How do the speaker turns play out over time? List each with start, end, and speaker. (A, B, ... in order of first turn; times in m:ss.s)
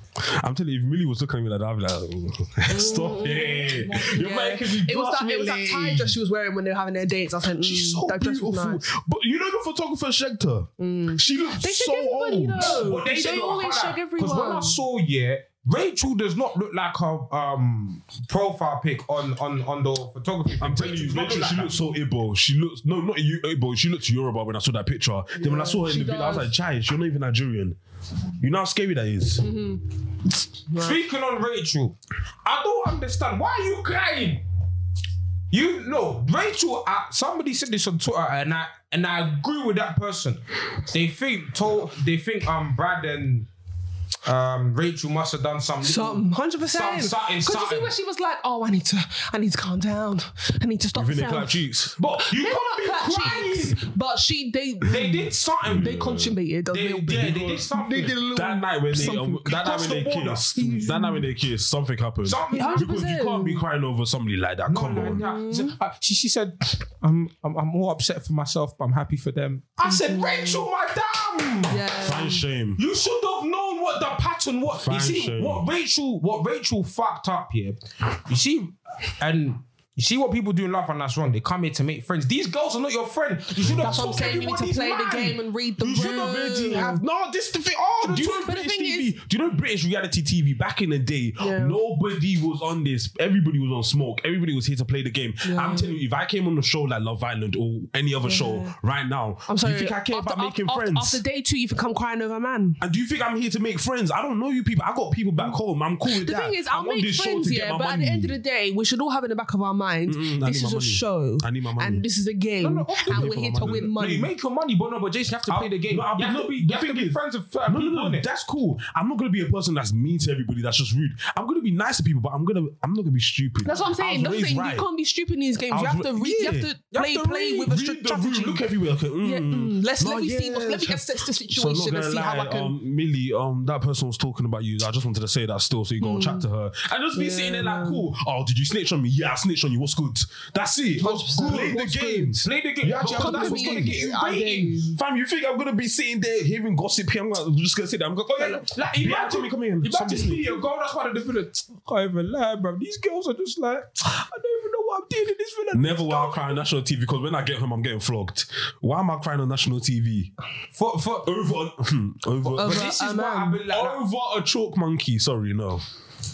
0:00.2-0:06.2 A
0:02.7-0:08.9 B
0:07.6-0:13.0 A
0:10.8-0:14.8 B
0:12.6-0:21.8 C
0:20.6-0:27.8 A
0:25.4-0:26.5 B
0:28.4-0:29.4 A
0:29.4-0:29.9 B
0:30.7-0:31.0 B
0:30.8-0:34.4 C
0:35.5-0:43.5 C
0:44.2-0:47.9 C
0:45.8-0:51.6 B
0:51.0-0:52.0 A
0:52.0-0:53.8 C
0:52.2-0:55.2 B
0:54.9-0:55.9 C
0:55.6-0:56.4 A
0:55.7-0:59.5 B
0:56.7-0:58.2 C
0:57.1-1:05.2 A
0:58.9-1:00.6 C
1:00.6-1:01.3 B
1:02.2-1:03.0 C
1:02.5-1:03.6 B
1:04.7-1:11.8 C
1:05.0-1:05.8 B
1:09.8-1:10.7 B
1:11.7-1:12.4 B
1:12.0-1:12.8 A
1:12.8-1:26.4 C
1:14.7-1:15.6 A
1:23.6-1:24.4 A
1:23.8-1:27.0 B
1:25.9-1:41.2 A
1:28.0-1:28.3 C
1:28.1-1:29.1 B
1:31.4-1:31.8 B
1:35.4-1:35.9 B
1:38.2-1:38.8 B
1:39.5-1:42.8 B
1:42.8-1:48.4 A
1:46.1-1:54.3 B
1:50.1-1:52.0 A
1:52.6-1:58.3 C
1:53.1-1:53.9 A
1:55.5-2:04.9 A
2:03.6-2:08.6 B
2:05.7-2:24.1 A
2:09.2-2:12.7 B
2:16.0-2:16.5 B
2:17.2-2:18.1 B
2:21.0-2:22.4 B
2:21.4-2:21.8 C
2:22.4-2:24.9 C
2:23.1-2:25.0 B
2:25.0-2:30.6 A
2:28.4-2:36.6 C
2:35.7-2:40.3 A
2:40.8-2:41.4 C
2:41.2-2:42.9 A
2:42.4-2:44.0 C
2:42.6-2:43.6 B
2:43.7-2:45.8 A